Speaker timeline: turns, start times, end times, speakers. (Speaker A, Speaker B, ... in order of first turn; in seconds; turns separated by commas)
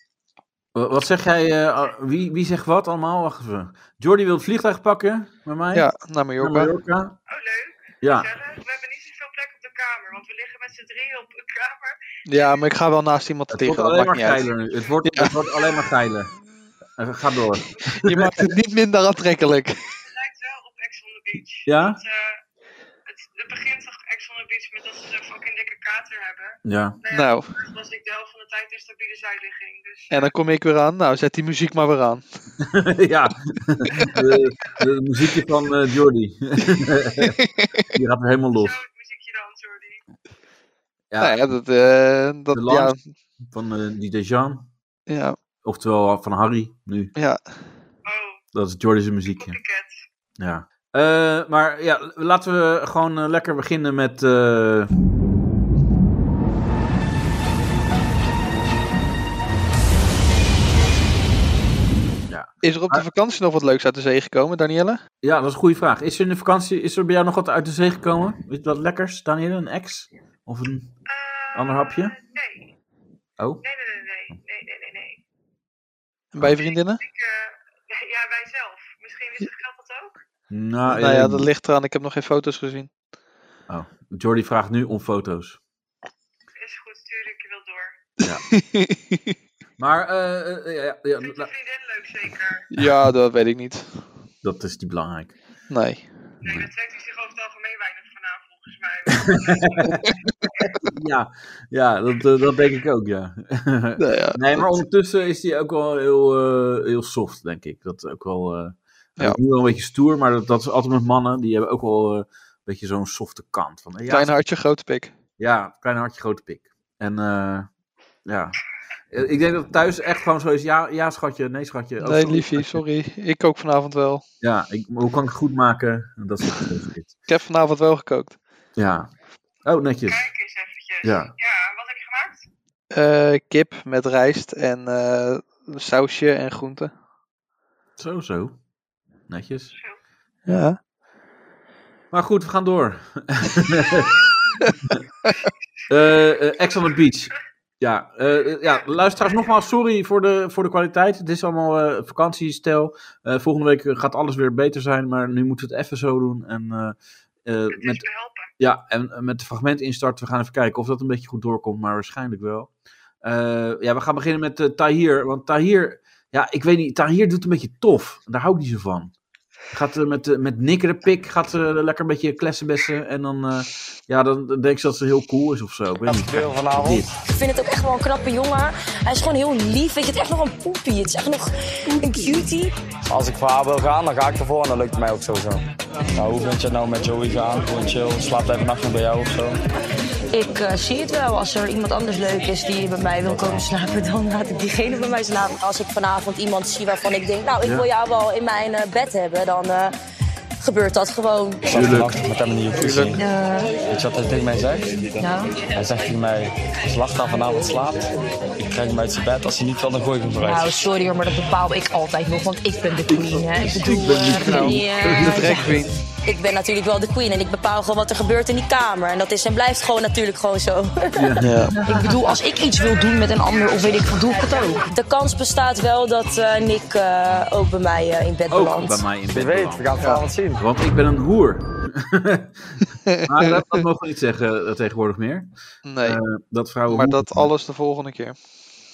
Speaker A: 0.7-7.1, Speaker B: 5.7-6.7, Speaker C: 7.3-12.6, Speaker A: 8.0-8.3, Speaker B: 12.2-14.5, Speaker A: 13.5-16.3, Speaker B: 15.0-15.3, Speaker C: 15.6-15.9, Speaker A: 17.0-18.4, Speaker B: 17.9-19.8, Speaker C: 20.0-22.2, Speaker A: 21.6-22.0, Speaker C: 23.1-30.3, Speaker A: 26.6-27.0, Speaker B: 27.1-27.5, Speaker B: 30.1-32.2, Speaker A: 32.6-37.3, Speaker C: 34.4-34.9, Speaker B: 37.2-37.8, Speaker A: 37.9-38.8, Speaker C: 38.5-40.0, Speaker A: 41.1-41.5, Speaker B: 41.2-43.0, Speaker A: 42.5-42.9, Speaker A: 43.5-44.7, Speaker B: 45.1-45.4, Speaker A: 45.6-47.1, Speaker B: 47.1-47.4, Speaker C: 48.0-48.4, Speaker A: 48.5-49.6, Speaker C: 49.3-50.0, Speaker A: 50.4-54.9, Speaker A: 62.3-63.0, Speaker B: 62.6-65.0, Speaker A: 65.2-70.9, Speaker C: 71.1-72.7, Speaker A: 71.5-72.1, Speaker C: 73.6-75.2, Speaker B: 76.3-77.0, Speaker C: 76.6-80.1, Speaker A: 80.5-81.5, Speaker B: 80.9-82.9, Speaker A: 83.7-85.6, Speaker C: 86.6-87.9, Speaker B: 88.5-89.3, Speaker A: 89.8-91.5, Speaker C: 91.2-92.7, Speaker B: 92.7-94.0, Speaker A: 94.4-95.4, Speaker B: 95.7-96.1, Speaker C: 96.4-99.9, Speaker A: 96.4-96.7, Speaker A: 99.5-100.0, Speaker A: 100.6-114.3, Speaker B: 104.0-104.8, Speaker B: 114.1-115.1, Speaker A: 115.4-117.7, Speaker A: 118.2-118.6, Speaker A: 119.1-122.8, Speaker B: 122.0-124.2, Speaker A: 124.4-127.1, Speaker B: 127.3-128.4, Speaker A: 128.8-129.1, Speaker A: 129.6-130.3, Speaker C: 130.1-132.4, Speaker A: 131.0-131.3, Speaker B: 132.9-136.9, Speaker A: 138.0-138.6, Speaker A: 139.3-139.7, Speaker C: 139.7-140.0, Speaker B: 140.4-140.8, Speaker A: 142.1-144.1, Speaker A: 145.9-158.0, Speaker C: 148.6-149.4, Speaker C: 157.7-158.5, Speaker A: 158.6-162.7, Speaker A: 163.2-169.1, Speaker A: 169.7-177.1, Speaker D: 176.0-177.1, Speaker E: 177.2-182.7, Speaker D: 183.1-189.6, Speaker E: 190.3-199.9, Speaker D: 193.2-193.7, Speaker A: 197.6-197.9, Speaker E: 200.6-201.7, Speaker D: 201.6-203.2, Speaker A: 201.7-202.2, Speaker A: 202.8-203.1, Speaker E: 203.2-203.7, Speaker D: 203.9-205.1, Speaker E: 205.2-205.5, Speaker D: 205.7-210.7, Speaker E: 210.4-215.7, Speaker A: 213.1-215.6, Speaker B: 214.3-216.0, Speaker E: 216.2-221.3, Speaker A: 221.2-222.0, Speaker B: 221.4-221.8, Speaker E: 221.8-229.1, Speaker C: 222.5-224.9, Speaker A: 228.5-237.5, Speaker D: 229.2-230.6, Speaker B: 230.0-230.3, Speaker B: 233.1-233.8, Speaker B: 235.8-236.2, Speaker B: 236.9-238.3